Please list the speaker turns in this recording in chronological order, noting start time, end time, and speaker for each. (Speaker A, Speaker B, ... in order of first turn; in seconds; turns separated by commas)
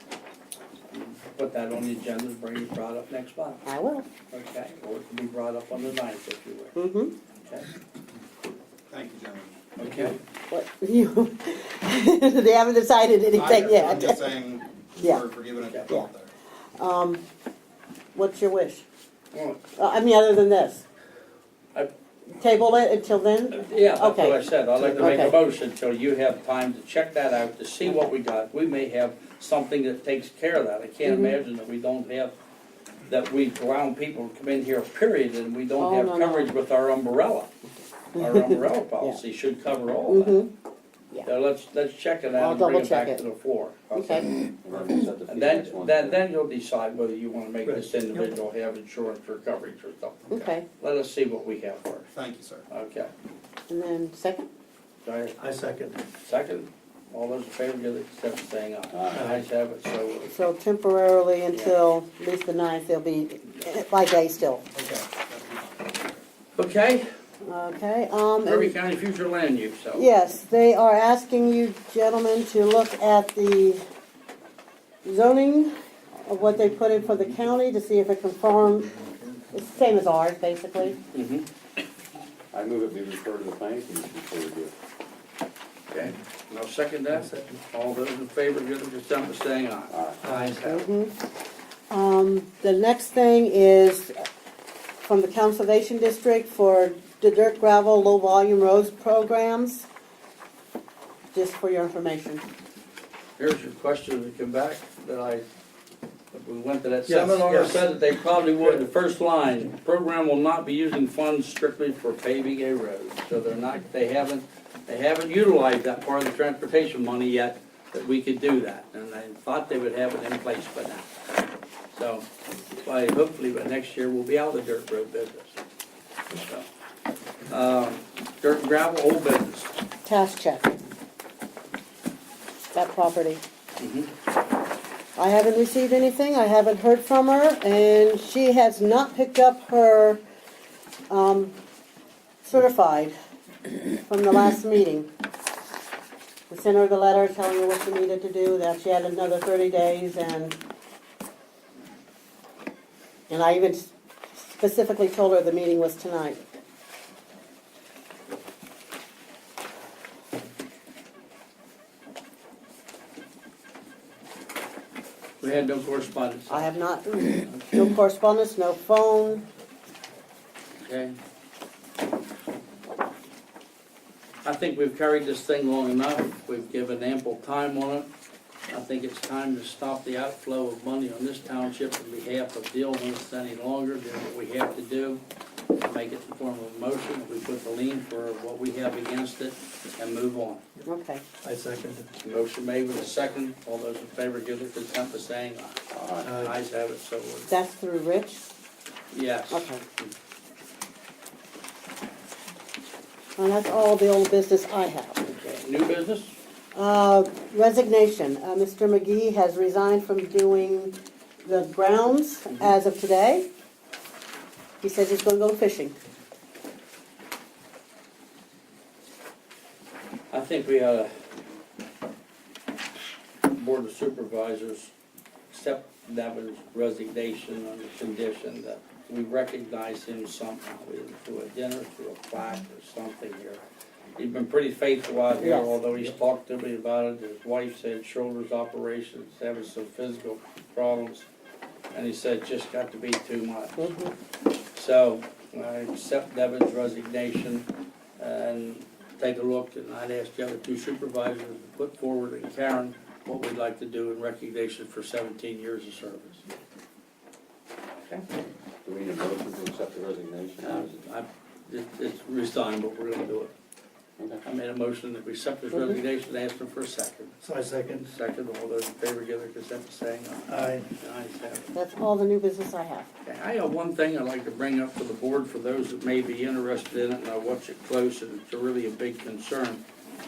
Speaker A: 0.9-3.6, Speaker B: 3.6-4.1, Speaker A: 4.3-6.8, Speaker B: 6.8-7.1, Speaker C: 8.9-9.6, Speaker A: 9.8-10.2, Speaker B: 10.5-14.3, Speaker C: 13.3-16.3, Speaker B: 15.0-15.2, Speaker B: 16.8-17.2, Speaker B: 18.1-18.8, Speaker A: 19.3-19.6, Speaker B: 19.8-20.8, Speaker B: 22.3-25.3, Speaker A: 23.5-32.3, Speaker D: 24.8-25.3, Speaker B: 31.0-31.3, Speaker A: 33.1-37.5, Speaker B: 35.8-36.5, Speaker A: 38.1-40.4, Speaker B: 38.2-39.2, Speaker B: 40.1-40.5, Speaker A: 41.2-44.4, Speaker B: 42.3-43.2, Speaker B: 43.9-44.3, Speaker E: 44.6-46.2, Speaker A: 45.3-52.1, Speaker D: 47.6-48.3, Speaker B: 50.3-50.6, Speaker C: 52.1-52.6, Speaker A: 52.7-53.1, Speaker B: 53.7-54.5, Speaker A: 55.0-55.4, Speaker D: 55.4-56.0, Speaker A: 56.2-60.3, Speaker E: 58.9-59.2, Speaker D: 59.1-59.4, Speaker B: 60.3-64.6, Speaker C: 64.7-66.0, Speaker A: 66.5-67.1, Speaker B: 67.4-68.8, Speaker A: 68.4-70.1, Speaker B: 69.9-73.8, Speaker B: 75.0-75.7, Speaker B: 76.2-79.0, Speaker B: 79.5-81.0, Speaker A: 81.1-81.5, Speaker E: 82.5-84.7, Speaker A: 85.9-90.9, Speaker D: 87.1-87.6, Speaker E: 89.9-90.2, Speaker D: 90.2-90.7, Speaker B: 90.6-91.1, Speaker B: 91.9-94.2, Speaker B: 95.0-99.9, Speaker B: 101.3-102.4, Speaker A: 103.4-105.4, Speaker A: 106.3-121.1, Speaker D: 107.1-107.8, Speaker A: 121.9-122.2, Speaker A: 122.8-125.6, Speaker A: 126.3-126.7, Speaker A: 127.5-129.7, Speaker B: 130.1-130.8, Speaker B: 132.7-133.4, Speaker A: 133.8-134.1, Speaker B: 135.2-140.2, Speaker B: 141.1-141.5, Speaker B: 142.4-143.1, Speaker B: 144.1-145.1, Speaker B: 146.5-150.6, Speaker B: 153.3-156.4, Speaker A: 165.4-166.7, Speaker B: 166.5-169.4, Speaker A: 167.4-167.7, Speaker A: 170.8-171.2, Speaker A: 174.4-178.1, Speaker A: 178.7-185.2, Speaker A: 185.8-190.6, Speaker B: 190.9-191.2, Speaker D: 191.4-192.1, Speaker A: 192.2-197.5, Speaker E: 195.9-196.3, Speaker D: 196.2-196.5, Speaker B: 197.5-198.4, Speaker A: 199.1-200.1, Speaker B: 199.5-199.8, Speaker B: 203.4-205.2, Speaker A: 205.2-206.3, Speaker B: 206.7-213.5, Speaker B: 214.8-215.9, Speaker A: 220.3-221.1, Speaker A: 223.5-224.9, Speaker A: 225.5-233.6, Speaker A: 234.2-241.3, Speaker B: 235.4-235.8, Speaker A: 241.9-243.9, Speaker B: 243.8-244.1, Speaker A: 244.7-247.7, Speaker A: 248.2-256.4, Speaker E: 258.8-260.9, Speaker A: 260.6-263.5, Speaker E: 264.2-264.4, Speaker A: 264.4-267.3, Speaker D: 267.4-268.1, Speaker A: 268.1-271.7, Speaker D: 270.5-270.9, Speaker B: 271.7-273.1, Speaker A: 273.2-279.8